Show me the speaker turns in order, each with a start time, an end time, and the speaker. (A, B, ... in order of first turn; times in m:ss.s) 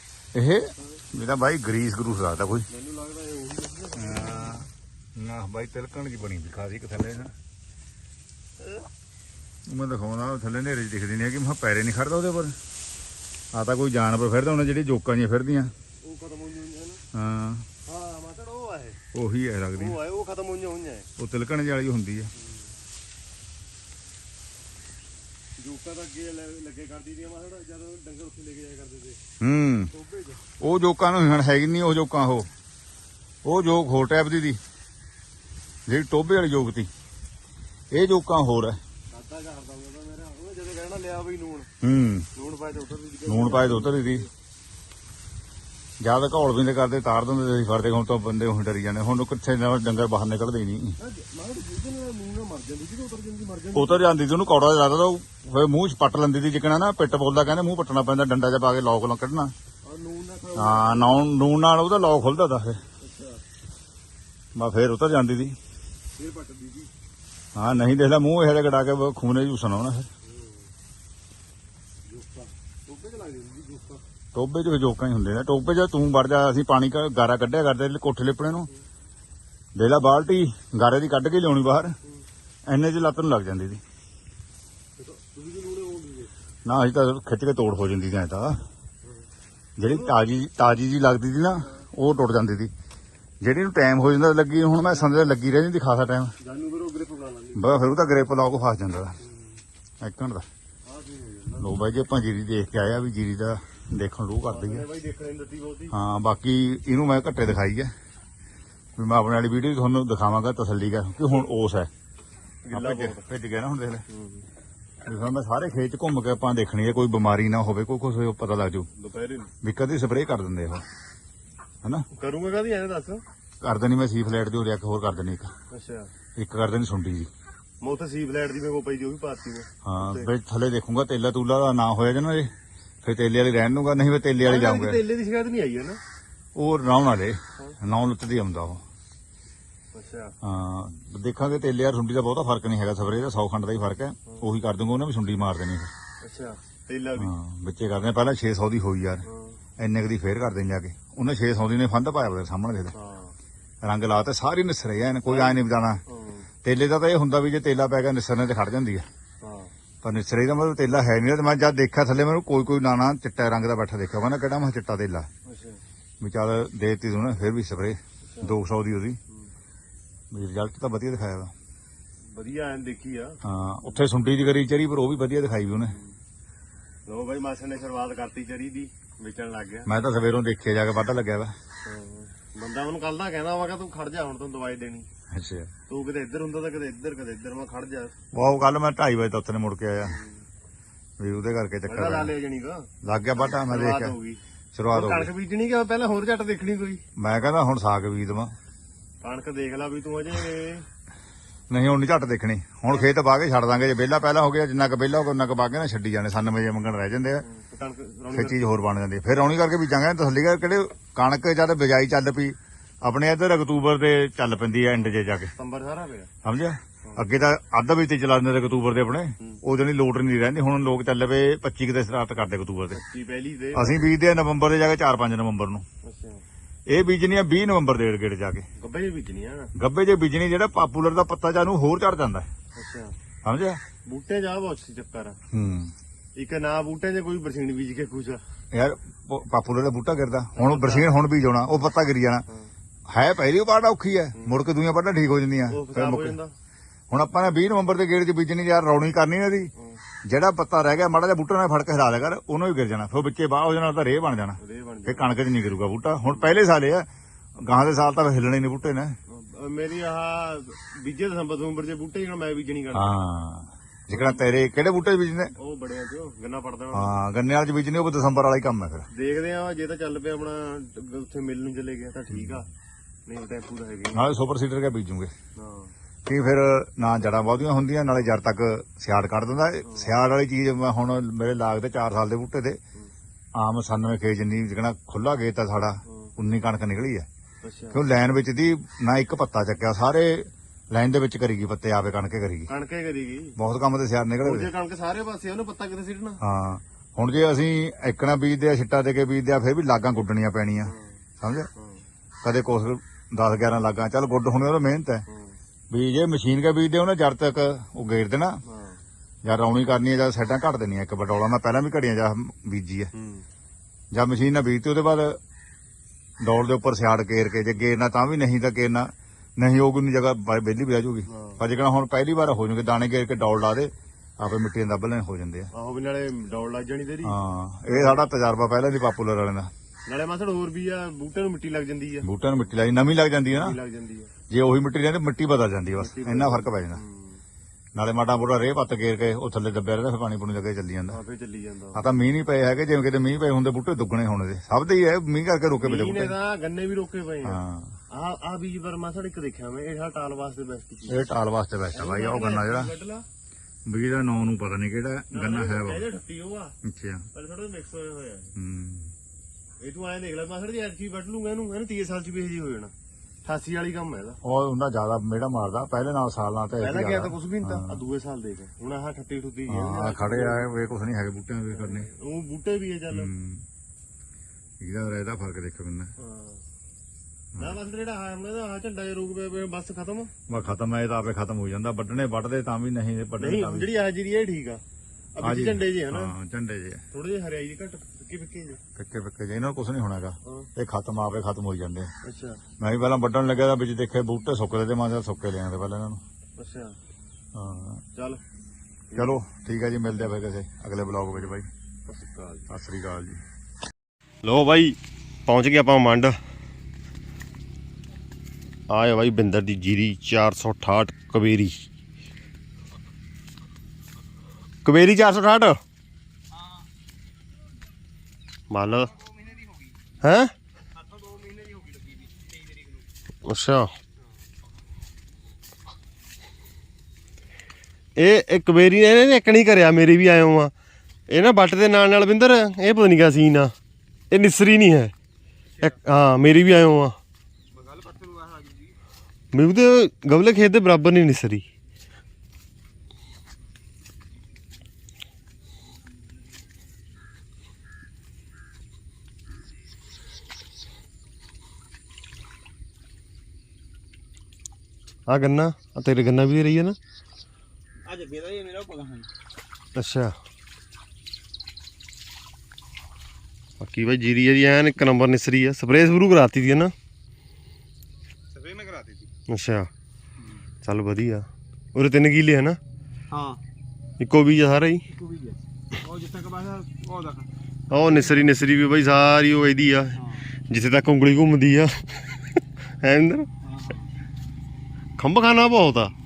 0:00.3-0:02.7 A
0:02.7-0:04.6 B
0:04.0-0:07.3 A
0:09.7-0:12.6 A
0:13.5-0:15.7 A
0:16.0-0:17.0 B
0:17.1-0:17.7 A
0:17.9-0:19.0 B
0:19.1-0:20.0 A
0:19.8-0:21.1 B
0:21.2-0:22.3 A
0:25.6-0:29.2 B
0:29.4-0:29.9 A
0:29.9-0:30.4 B
0:30.6-0:32.5 A
0:33.4-0:34.6 A
0:35.9-0:36.9 A
0:37.9-0:38.8 A
0:39.1-0:41.7 B
0:41.8-0:42.3 A
0:42.4-0:44.3 B
0:43.3-0:44.2 A
0:46.0-0:51.0 A
0:51.0-0:54.1 B
0:53.8-0:59.5 A
0:59.8-1:01.2 B
1:00.6-1:02.8 A
1:03.0-1:03.4 B
1:04.6-1:05.6 A
1:06.2-1:06.9 B
1:07.6-1:10.1 A
1:10.2-1:10.7 B
1:12.1-1:14.0 B
1:14.3-1:18.7 A
1:19.8-1:22.0 A
1:22.7-1:23.8 A
1:25.0-1:26.3 B
1:26.6-1:28.6 A
1:29.8-1:32.7 A
1:29.9-1:30.2 B
1:33.4-1:36.3 A
1:36.4-1:38.0 B
1:37.6-1:39.2 A
1:40.0-1:40.5 A
1:40.9-1:41.7 B
1:41.6-1:44.9 A
1:44.5-1:46.0 B
1:45.9-1:47.9 A
1:49.0-1:51.9 A
1:52.6-1:53.3 B
1:52.7-1:54.0 A
1:54.1-1:54.4 B
1:55.0-1:58.9 A
1:59.0-1:59.5 B
1:59.6-2:00.8 A
2:02.1-2:03.2 B
2:03.6-2:05.5 A
2:05.7-2:06.1 B
2:06.4-2:07.3 A
2:07.8-2:10.3 B
2:09.8-2:12.5 A
2:13.0-2:15.0 A
2:14.4-2:16.0 B
2:16.6-2:18.8 A
2:19.9-2:20.3 B
2:20.4-2:25.9 A
2:26.2-2:27.3 B
2:27.2-2:29.2 A
2:29.2-2:29.6 B
2:29.8-2:33.0 A
2:32.9-2:33.4 B
2:33.8-2:36.0 A
2:35.3-2:36.5 B
2:36.6-2:39.1 A
2:39.4-2:39.7 B
2:40.0-2:45.3 A
2:45.4-2:45.8 B
2:46.2-2:49.2 A
2:48.3-2:48.6 B
2:50.3-2:51.5 A
2:52.3-2:53.4 B
2:53.4-2:56.0 A
2:57.1-2:59.9 B
2:59.9-3:01.5 A
3:01.8-3:05.1 B
3:05.3-3:05.7 A
3:05.9-3:08.1 B
3:08.3-3:10.2 A
3:10.1-3:10.4 B
3:11.2-3:12.3 A
3:11.9-3:17.0 B
3:13.0-3:14.2 A
3:14.7-3:15.3 A
3:17.2-3:18.5 A
3:19.2-3:20.9 B
3:21.7-3:27.4 A
3:27.4-3:28.6 B
3:28.3-3:35.5 A
3:35.6-3:36.3 B
3:36.4-3:43.0 A
3:37.0-3:37.3 B
3:42.9-3:44.1 B
3:43.7-3:45.8 A
3:46.0-3:46.4 B
3:46.9-3:48.7 A
3:48.8-3:49.7 B
3:49.8-3:52.5 A
3:52.8-3:53.1 B
3:53.4-3:53.8 A
3:54.1-3:55.4 B
3:55.5-3:55.9 A
3:56.4-3:58.4 B
3:58.7-4:02.5 A
4:00.6-4:01.1 B
4:03.1-4:06.4 A
4:05.7-4:06.5 B
4:07.1-4:09.7 A
4:10.2-4:19.2 A
4:14.6-4:15.3 B
4:19.3-4:23.2 B
4:22.9-4:25.5 A
4:24.1-4:24.4 B
4:25.6-4:27.2 B
4:26.9-4:29.1 A
4:29.1-4:32.7 B
4:32.3-4:32.6 A
4:33.3-4:34.3 B
4:34.1-4:35.3 A
4:35.6-4:35.9 B
4:36.3-4:42.8 A
4:39.8-4:40.1 B
4:43.6-4:47.3 A
4:47.6-4:48.0 B
4:47.9-4:52.7 A
4:52.7-4:53.6 B
4:53.6-4:54.7 A
4:54.4-4:56.4 B
4:56.4-5:01.7 A
5:00.8-5:01.1 B
5:01.8-5:02.0 B
5:02.4-5:05.2 A
5:05.3-5:05.6 B
5:05.9-5:08.6 A
5:08.6-5:09.0 B
5:09.4-5:13.1 A
5:13.1-5:13.4 B
5:14.1-5:15.4 A
5:16.4-5:25.7 A
5:21.3-5:21.6 B
5:25.7-5:27.4 B
5:27.2-5:29.7 A
5:27.9-5:28.3 B
5:30.1-5:32.3 B
5:32.2-5:33.8 A
5:33.5-5:34.3 B
5:34.5-5:37.0 A
5:36.0-5:37.4 B
5:38.0-5:41.2 A
5:41.1-5:42.0 B
5:41.9-5:46.4 A
5:45.8-5:47.6 B
5:47.4-5:48.0 A
5:48.1-5:51.3 B
5:51.1-5:52.9 A
5:51.9-5:53.2 B
5:53.9-5:56.1 A
5:55.3-5:56.8 B
5:56.8-5:57.3 A
5:57.3-5:58.5 B
5:58.6-5:59.1 A
5:59.8-6:02.9 B
6:03.4-6:04.4 B
6:04.4-6:08.0 A
6:06.8-6:10.7 B
6:09.7-6:12.1 A
6:11.7-6:13.3 B
6:13.1-6:13.6 A
6:14.8-6:16.1 A
6:16.2-6:16.6 B
6:17.6-6:20.3 B
6:20.5-6:23.9 A
6:23.4-6:24.8 B
6:25.4-6:26.3 B
6:25.4-6:27.0 A
6:27.1-6:28.8 B
6:29.0-6:32.1 A
6:32.2-6:32.6 B
6:32.8-6:36.2 A
6:36.6-6:37.0 B
6:37.5-6:38.0 A
6:38.2-6:38.4 B
6:39.1-6:39.4 B
6:39.2-6:41.7 A
6:42.1-6:42.7 B
6:42.7-6:43.4 A
6:44.4-6:46.4 B
6:48.9-6:51.8 B
6:54.8-6:55.8 B
6:56.5-6:56.8 C
6:58.7-6:59.1 B
6:58.9-7:00.0 C
7:00.2-7:00.5 B
7:01.0-7:03.1 C
7:03.5-7:03.9 B
7:08.2-7:10.7 B
7:11.3-7:13.7 B
7:14.3-7:15.1 B
7:15.8-7:17.2 B
7:17.7-7:19.0 C
7:19.5-7:21.6 B
7:35.3-7:37.0 B
7:38.0-7:39.3 C
7:40.0-7:40.4 B
7:43.8-7:46.9 B
7:48.5-7:49.3 C
7:49.5-7:49.9 B
7:50.4-7:50.7 C
7:50.8-7:52.8 B
7:53.3-7:53.6 C
7:54.2-7:55.0 B
7:55.1-7:58.5 C
7:57.9-8:00.2 B
8:00.2-8:00.5 C
8:00.7-8:02.2 B
8:03.0-8:03.5 B
8:03.6-8:04.1 C
8:05.2-8:06.1 B